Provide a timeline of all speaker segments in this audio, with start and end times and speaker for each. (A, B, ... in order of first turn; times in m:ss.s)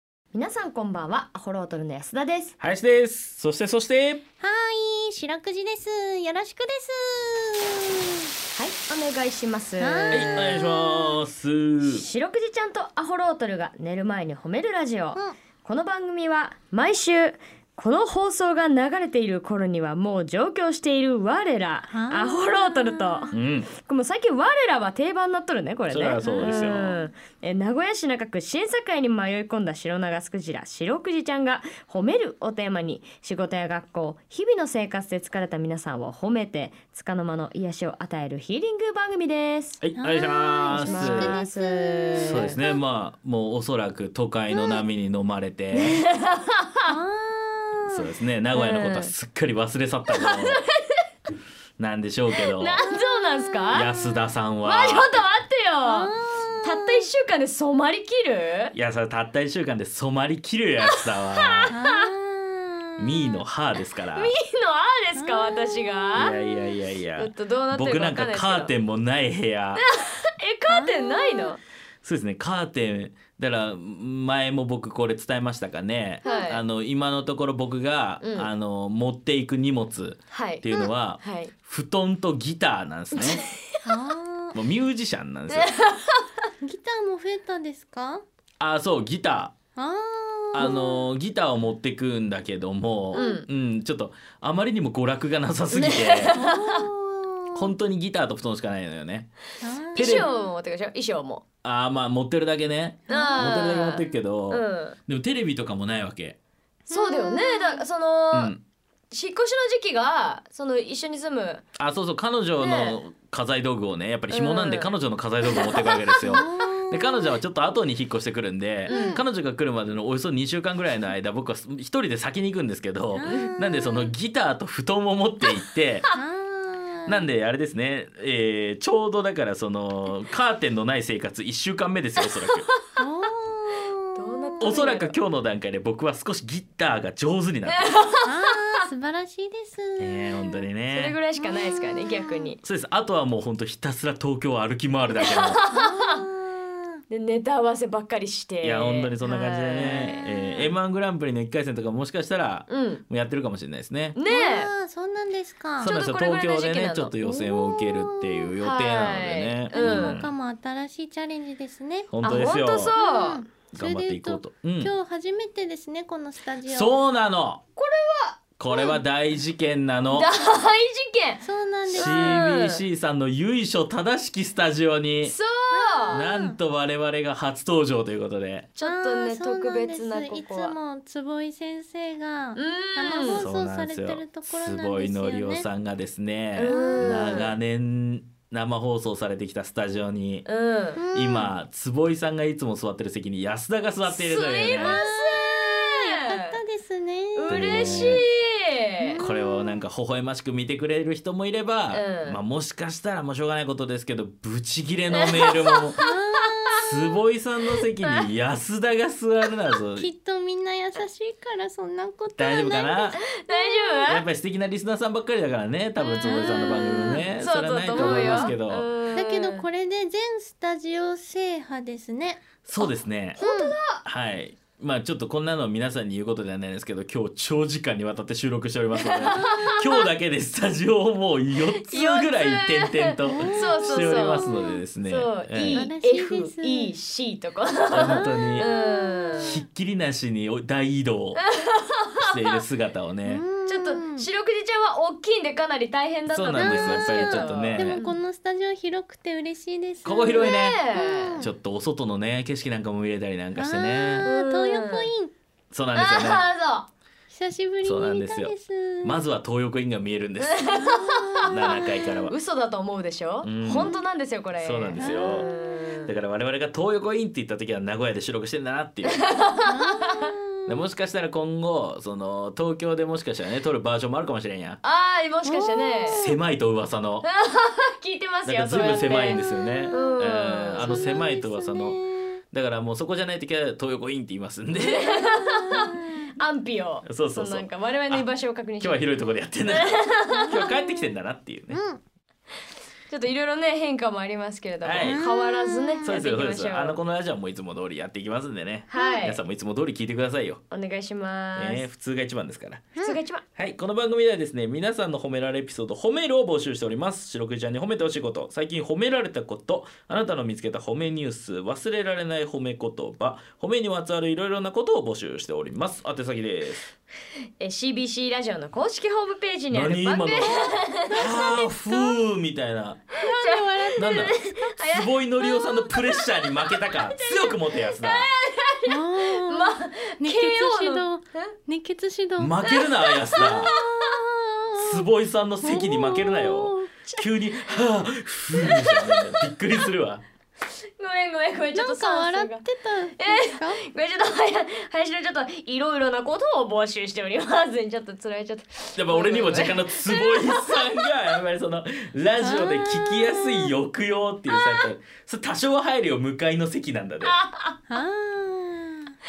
0:00.3-0:02.6 A
0:02.6-0:04.2 B
0:04.4-0:08.3 C
0:08.5-0:11.2 A
0:09.8-0:10.4 C
0:10.1-0:12.0 B
0:11.8-0:39.8 A
0:21.9-0:23.4 C
0:23.3-0:23.7 B
0:25.9-0:27.0 B
0:26.2-0:26.8 C
0:39.8-0:41.3 B
0:40.0-0:42.8 C
0:40.7-0:42.6 A
0:42.2-0:46.0 B
0:45.7-0:46.9 A
0:46.9-0:48.0 C
0:47.8-0:50.6 B
0:48.5-0:49.1 A
0:50.1-0:51.0 A
0:51.8-0:52.8 B
0:52.5-0:53.9 A
0:52.8-0:54.1 C
0:53.7-0:55.2 B
0:54.6-0:56.1 A
0:55.8-0:57.1 C
0:56.6-0:58.7 A
0:58.7-1:01.7 B
1:00.9-1:02.1 A
1:01.7-1:03.4 C
1:03.0-1:04.3 B
1:04.2-1:06.4 A
1:05.2-1:06.7 C
1:06.2-1:09.8 B
1:07.2-1:08.7 A
1:09.9-1:11.6 A
1:10.7-1:11.5 C
1:12.0-1:23.5 B
1:16.2-1:16.6 A
1:18.2-1:18.5 A
1:20.3-1:21.5 A
1:23.2-1:23.9 A
1:23.8-1:24.6 C
1:24.5-1:25.7 B
1:25.5-1:26.4 A
1:26.6-1:28.2 C
1:28.6-1:29.5 B
1:29.8-1:31.0 C
1:30.5-1:36.3 B
1:33.1-1:33.4 A
1:35.7-1:36.9 A
1:36.3-1:37.7 C
1:37.5-1:39.3 B
1:39.6-1:40.4 C
1:39.9-1:40.2 B
1:39.9-1:41.4 A
1:41.6-1:46.4 B
1:43.1-1:43.6 C
1:43.1-1:45.0 A
1:46.9-1:48.5 A
1:46.9-1:47.8 C
1:48.3-1:48.6 B
1:49.1-1:51.6 A
1:51.8-2:06.1 B
1:52.6-1:53.0 A
1:54.3-1:54.9 A
1:55.5-1:56.4 A
1:56.2-1:57.4 C
1:58.9-1:59.2 A
1:58.9-1:59.2 C
2:03.1-2:04.1 C
2:06.1-2:07.2 C
2:07.1-2:12.7 B
2:13.0-2:14.7 C
2:14.1-2:15.2 A
2:14.6-2:18.0 B
2:17.7-2:18.6 A
2:18.2-2:20.6 C
2:20.0-2:21.2 B
2:20.9-2:22.6 A
2:21.4-2:22.5 C
2:22.6-2:25.6 B
2:25.2-2:26.2 A
2:25.7-2:27.0 C
2:27.1-2:30.6 A
2:28.6-2:34.2 B
2:32.7-2:33.0 A
2:34.1-2:34.7 A
2:34.2-2:35.9 C
2:35.8-2:40.3 B
2:35.8-2:37.1 A
2:37.2-2:38.6 C
2:38.6-2:40.2 A
2:39.7-2:47.0 C
2:42.1-2:42.9 B
2:42.2-2:43.4 A
2:43.7-2:44.9 B
2:46.6-2:47.6 B
2:47.8-2:49.0 A
2:48.6-2:50.3 B
2:50.1-2:52.8 A
2:51.4-2:52.4 C
2:51.9-2:55.3 B
2:55.2-2:56.2 A
2:55.7-2:56.6 C
2:56.1-2:58.7 B
2:58.8-3:00.7 A
2:58.8-3:05.7 C
3:02.5-3:03.4 A
3:03.2-3:10.4 B
3:06.6-3:07.5 A
3:06.7-3:07.4 C
3:10.4-3:11.0 A
3:11.0-3:11.5 C
3:11.1-3:15.0 B
3:14.0-3:16.6 A
3:14.8-3:18.2 C
3:17.3-3:19.2 A
3:17.5-3:18.2 B
3:19.0-3:19.8 C
3:19.2-3:26.0 B
3:21.9-3:22.4 A
3:25.1-3:26.1 A
3:26.0-3:26.9 C
3:26.8-3:30.1 B
3:30.0-3:34.0 C
3:32.4-3:33.2 B
3:33.2-3:34.2 A
3:34.0-3:38.9 B
3:36.0-3:39.6 A
3:36.2-3:37.3 C
3:37.9-3:38.5 C
3:39.1-3:42.4 C
3:42.6-3:43.4 B
3:42.8-3:44.0 A
3:43.4-3:43.8 C
3:44.0-3:55.8 B
3:49.0-3:50.0 A
3:51.8-3:59.6 A
3:53.3-3:54.8 C
3:55.7-3:56.9 C
3:57.9-3:58.7 B
3:58.0-3:59.6 C
3:59.4-4:01.4 B
4:01.5-4:02.6 A
4:02.2-4:03.4 B
4:03.2-4:04.2 C
4:03.6-4:08.2 A
4:06.3-4:08.0 B
4:06.5-4:11.4 C
4:10.0-4:10.8 B
4:10.1-4:11.4 A
4:11.4-4:14.3 B
4:13.6-4:15.3 C
4:14.2-4:15.1 A
4:15.7-4:16.4 B
4:15.9-4:16.9 A
4:17.3-4:19.2 C
4:17.8-4:20.8 B
4:20.4-4:21.5 A
4:20.7-4:22.1 C
4:21.4-4:22.3 B
4:22.2-4:26.1 A
4:23.4-4:24.0 B
4:23.6-4:24.0 C
4:24.6-4:25.5 B
4:25.0-4:25.5 C
4:26.0-4:29.2 B
4:29.1-4:30.3 A
4:29.6-4:30.8 C
4:30.6-4:34.8 B
4:34.8-4:36.3 A
4:35.4-4:36.3 C
4:36.1-4:37.2 B
4:37.2-4:41.1 A
4:38.4-4:42.0 B
4:39.4-4:40.1 C
4:40.8-4:42.4 C
4:42.5-4:45.1 B
4:44.8-4:49.0 A
4:45.0-4:46.3 C
4:47.0-4:51.8 B
4:49.7-4:50.6 A
4:50.3-4:51.1 C
4:51.7-4:52.0 C
4:53.1-4:57.0 A
4:54.8-4:55.3 B
4:55.0-4:56.2 C
4:56.0-5:00.6 B
4:58.9-4:59.4 A
5:00.7-5:01.8 A
5:01.5-5:02.9 B
5:03.0-5:03.4 A
5:03.6-5:16.9 B
5:17.6-5:21.7 A
5:19.7-5:23.1 B
5:21.1-5:22.1 C
5:23.1-5:31.5 A
5:23.2-5:24.7 C
5:24.0-5:28.3 B
5:28.9-5:32.6 C
5:32.4-5:33.7 B
5:32.6-5:34.2 A
5:33.3-5:35.1 C
5:34.8-5:40.2 B
5:35.6-5:36.9 C
5:37.0-5:37.8 A
5:38.5-5:39.8 A
5:41.0-5:42.6 A
5:41.7-5:43.8 C
5:43.2-5:51.1 A
5:49.0-5:57.3 B
5:52.4-5:53.7 C
5:54.5-5:54.9 A
5:57.2-5:57.8 A
5:57.9-5:59.1 C